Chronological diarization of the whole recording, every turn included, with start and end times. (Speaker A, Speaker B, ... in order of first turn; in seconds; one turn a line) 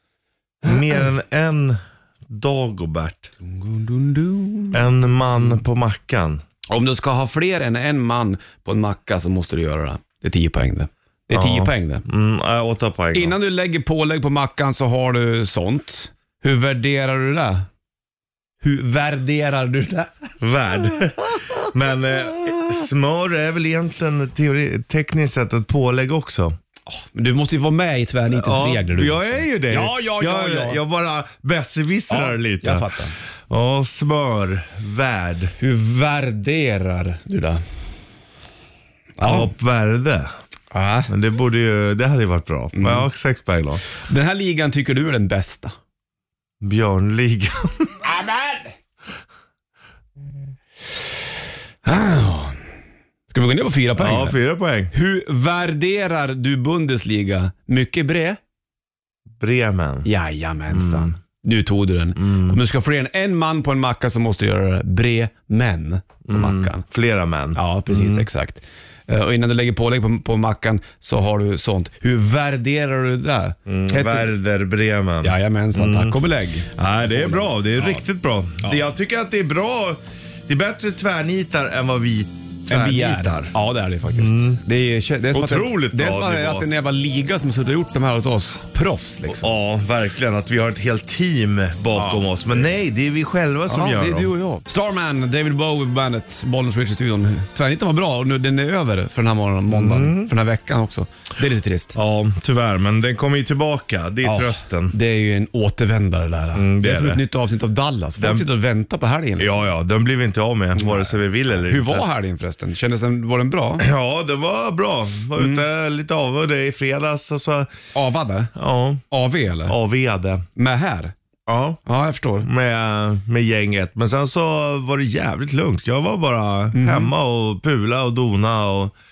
Speaker A: 0.6-3.3
Speaker B: 3.4-4.8
Speaker A: 4.7-6.4
Speaker B: 6.7-12.0
Speaker A: 11.3-13.4
Speaker B: 13.1-17.6
Speaker B: 18.6-20.2
Speaker A: 20.4-26.6
Speaker B: 26.9-30.8
Speaker A: 28.3-32.9
Speaker B: 32.1-33.2
Speaker A: 33.5-35.5
Speaker B: 35.6-37.6
Speaker B: 39.2-39.5
Speaker A: 39.2-40.3
Speaker B: 40.7-41.1
Speaker A: 41.1-43.8
Speaker B: 42.7-43.1
Speaker B: 44.0-45.7
Speaker A: 46.6-48.0
Speaker B: 48.0-48.7
Speaker B: 51.8-52.6
Speaker B: 53.3-54.4
Speaker A: 54.0-54.9
Speaker B: 54.9-58.4
Speaker A: 59.4-60.1
Speaker B: 60.0-66.8
Speaker A: 60.7-61.1
Speaker A: 62.1-62.6
Speaker A: 66.3-68.3
Speaker B: 67.5-74.3
Speaker A: 73.7-76.2
Speaker B: 75.2-78.0
Speaker A: 76.7-83.5
Speaker B: 82.7-89.5
Speaker A: 84.1-84.6
Speaker A: 85.3-86.7
Speaker A: 89.2-94.3
Speaker B: 91.9-92.7
Speaker B: 93.7-102.0
Speaker A: 99.7-100.3
Speaker A: 101.9-104.9
Speaker B: 104.2-109.7
Speaker A: 106.5-107.2
Speaker A: 108.2-108.5
Speaker A: 109.4-112.1
Speaker B: 110.8-113.9
Speaker A: 113.8-117.7
Speaker B: 115.4-115.6
Speaker B: 117.9-118.5
Speaker A: 118.5-119.0
Speaker B: 119.1-119.8
Speaker A: 119.6-120.4
Speaker B: 120.5-121.1
Speaker A: 121.5-121.8
Speaker B: 121.8-122.5
Speaker A: 122.4-128.9
Speaker B: 126.7-127.1